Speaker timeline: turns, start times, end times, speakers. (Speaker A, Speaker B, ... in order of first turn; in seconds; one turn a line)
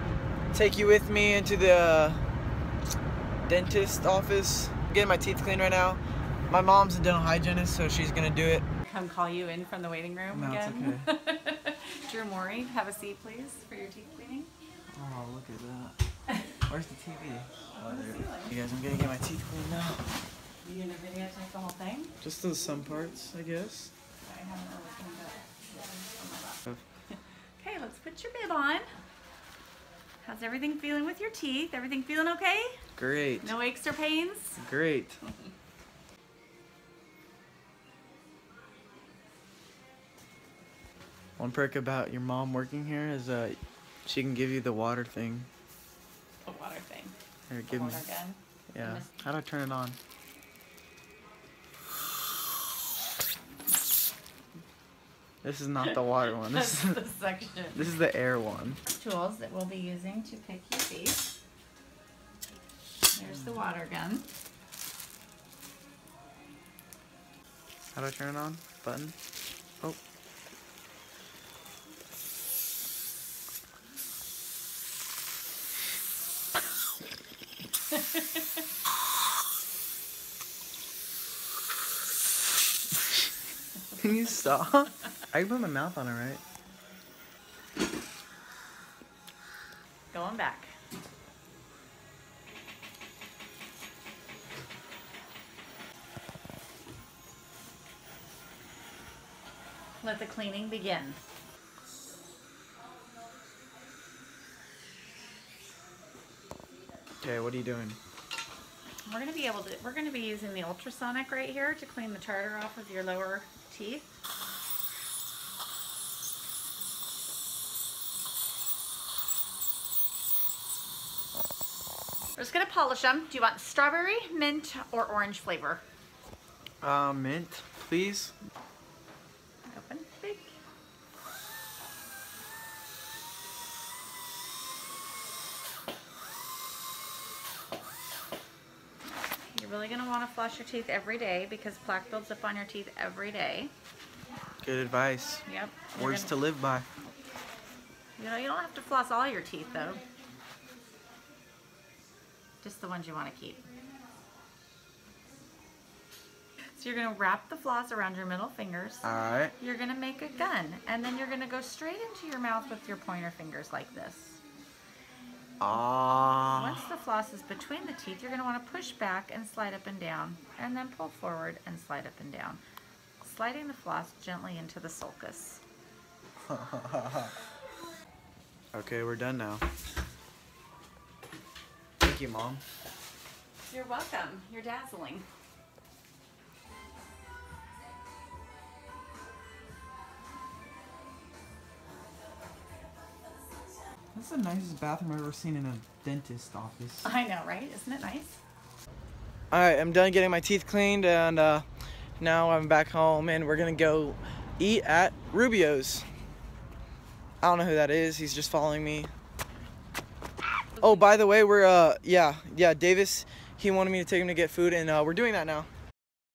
Speaker A: 0.5-2.2
Speaker A: 3.5-8.7
Speaker B: 8.8-14.5
Speaker A: 10.3-11.1
Speaker A: 14.9-16.0
Speaker A: 16.7-20.1
Speaker B: 17.8-18.6
Speaker B: 20.6-22.2
Speaker A: 22.2-23.9
Speaker B: 24.2-26.6
Speaker B: 27.6-28.9
Speaker B: 30.2-32.8
Speaker A: 33.0-33.5
Speaker B: 33.4-34.6
Speaker A: 34.6-35.2
Speaker A: 41.4-45.5
Speaker B: 46.4-47.1
Speaker A: 47.5-48.0
Speaker B: 47.7-49.1
Speaker A: 48.7-50.0
Speaker A: 55.4-57.0
Speaker B: 55.8-57.9
Speaker A: 57.7-58.8
Speaker B: 58.9-61.3
Speaker B: 63.1-64.2
Speaker A: 67.9-69.1
Speaker A: 84.0-86.4
Speaker B: 90.1-90.7
Speaker B: 100.0-101.2
Speaker A: 107.2-108.0
Speaker B: 109.0-114.0
Speaker B: 122.4-125.8
Speaker A: 126.8-128.3
Speaker B: 129.7-130.5
Speaker B: 139.5-143.7
Speaker A: 144.6-145.4
Speaker B: 145.5-146.3
Speaker A: 145.9-146.9
Speaker B: 148.2-150.0
Speaker B: 152.6-153.7
Speaker B: 156.8-164.4
Speaker A: 159.0-159.5
Speaker A: 165.6-166.8
Speaker B: 166.5-172.6
Speaker B: 173.2-175.6
Speaker A: 176.4-177.3
Speaker A: 178.7-179.6
Speaker A: 182.0-182.6
Speaker B: 183.7-185.3
Speaker A: 194.2-197.1
Speaker B: 197.0-198.4
Speaker A: 199.5-201.7
Speaker A: 202.2-206.1
Speaker A: 207.4-209.1
Speaker B: 210.8-211.1
Speaker A: 210.8-215.7